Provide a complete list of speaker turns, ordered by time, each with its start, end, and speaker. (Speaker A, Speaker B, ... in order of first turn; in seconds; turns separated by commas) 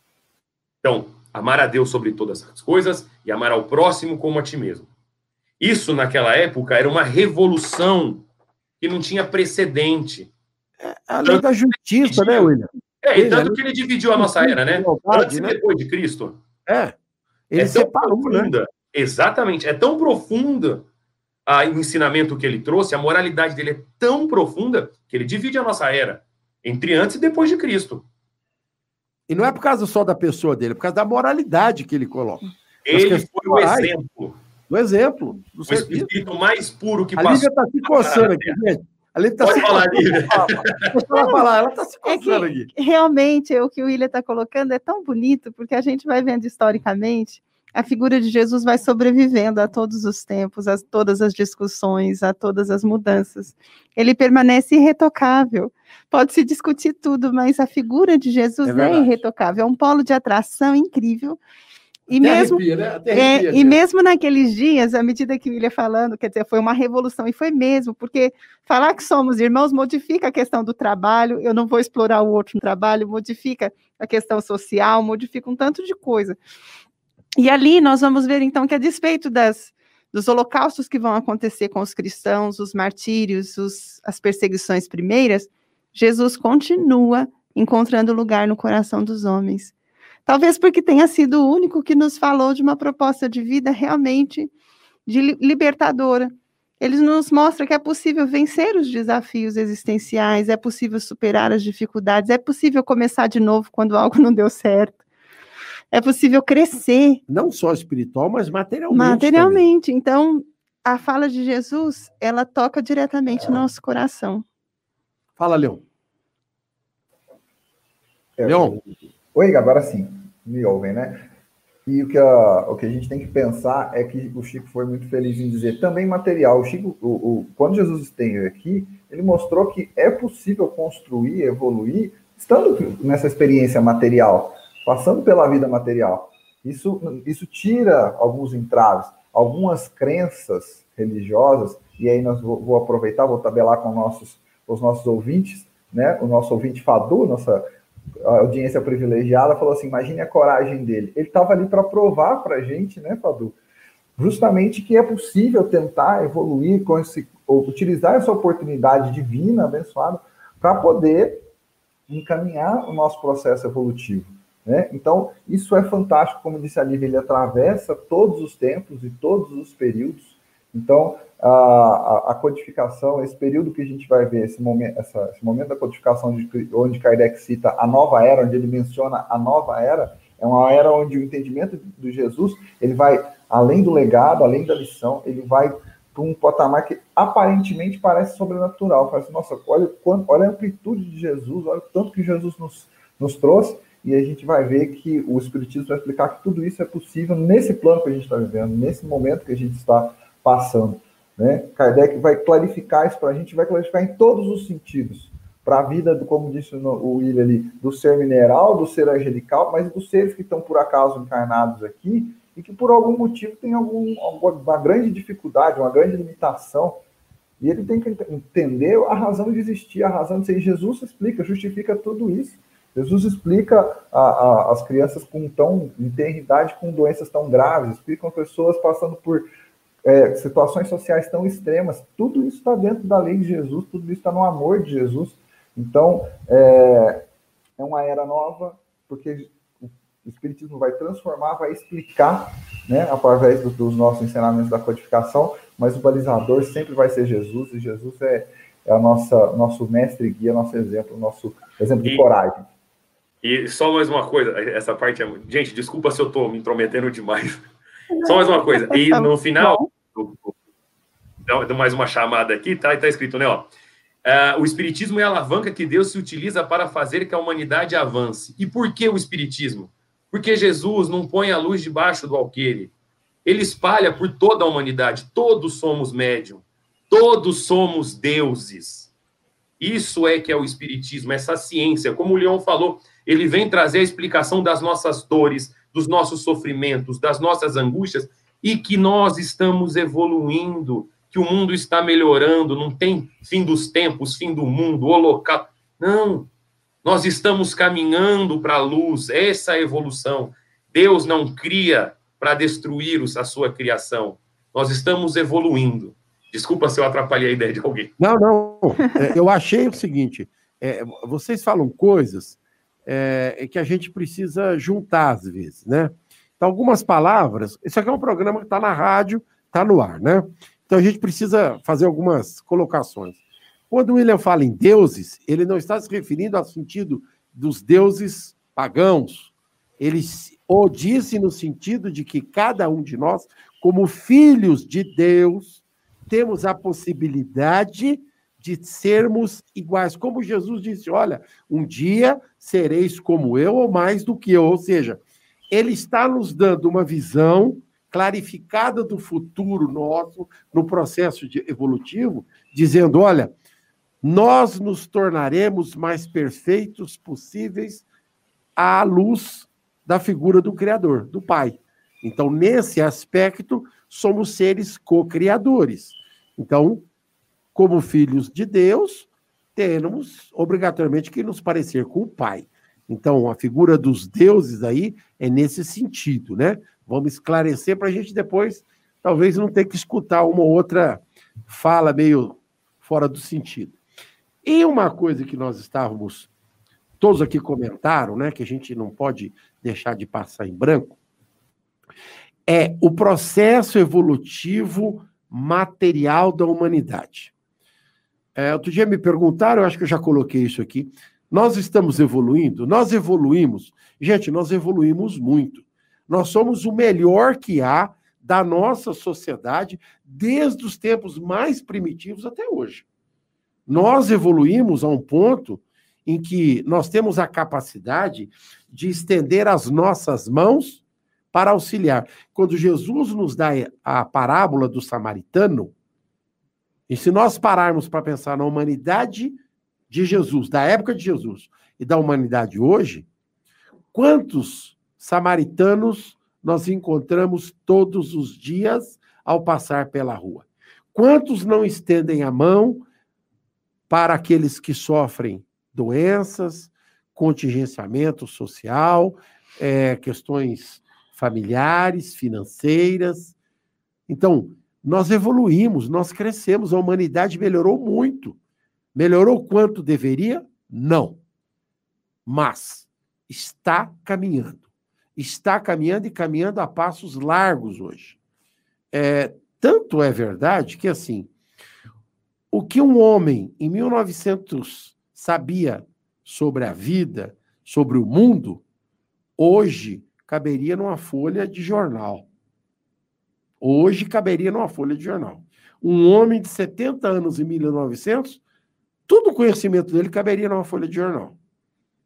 Speaker A: 0.8-4.9, Speaker A: 5.6-8.2, Speaker A: 8.8-10.3, Speaker B: 10.8-13.6, Speaker A: 11.2-16.4, Speaker B: 14.2-15.6, Speaker B: 16.7-16.9, Speaker B: 17.5-18.5, Speaker A: 17.6-20.9, Speaker A: 21.4-28.0, Speaker B: 29.3-33.9, Speaker A: 32.9-34.4, Speaker B: 34.7-36.1, Speaker A: 35.7-38.6, Speaker B: 37.2-42.7, Speaker A: 39.4-41.0, Speaker C: 41.1-41.4, Speaker C: 42.0-61.4, Speaker B: 58.6-59.1, Speaker C: 62.1-76.4, Speaker B: 62.1-63.8, Speaker C: 77.4-89.7, Speaker C: 90.2-94.5, Speaker C: 95.0-105.0, Speaker C: 105.9-107.2, Speaker B: 107.3-109.6, Speaker C: 108.9-114.4, Speaker B: 115.4-115.8, Speaker D: 118.4-118.8, Speaker B: 118.4-119.0, Speaker D: 119.3-121.3, Speaker D: 121.8-147.7, Speaker D: 148.2-153.6, Speaker D: 154.2-161.4, Speaker D: 162.1-217.0, Speaker D: 217.6-229.4, Speaker D: 230.0-237.2, Speaker D: 237.8-252.6, Speaker A: 253.4-257.6, Speaker C: 258.1-259.9, Speaker A: 258.2-260.5, Speaker A: 261.4-263.7, Speaker A: 264.2-272.9, Speaker A: 273.4-279.1, Speaker A: 279.8-296.5, Speaker A: 297.0-308.1, Speaker B: 308.2-353.5, Speaker B: 354.2-358.0, Speaker B: 358.8-367.0, Speaker B: 367.7-384.0, Speaker B: 384.6-386.5, Speaker B: 387.2-391.1, Speaker B: 392.7-397.5, Speaker B: 398.5-413.0, Speaker B: 413.9-425.9, Speaker B: 427.1-429.6, Speaker B: 430.1-433.3, Speaker B: 434.1-443.0, Speaker B: 444.1-453.6, Speaker B: 454.3-458.6, Speaker B: 459.1-461.4, Speaker B: 462.4-464.8, Speaker B: 465.4-468.4, Speaker B: 469.1-471.5, Speaker B: 472.7-478.8, Speaker B: 479.6-482.5, Speaker B: 483.8-488.6, Speaker B: 489.3-491.6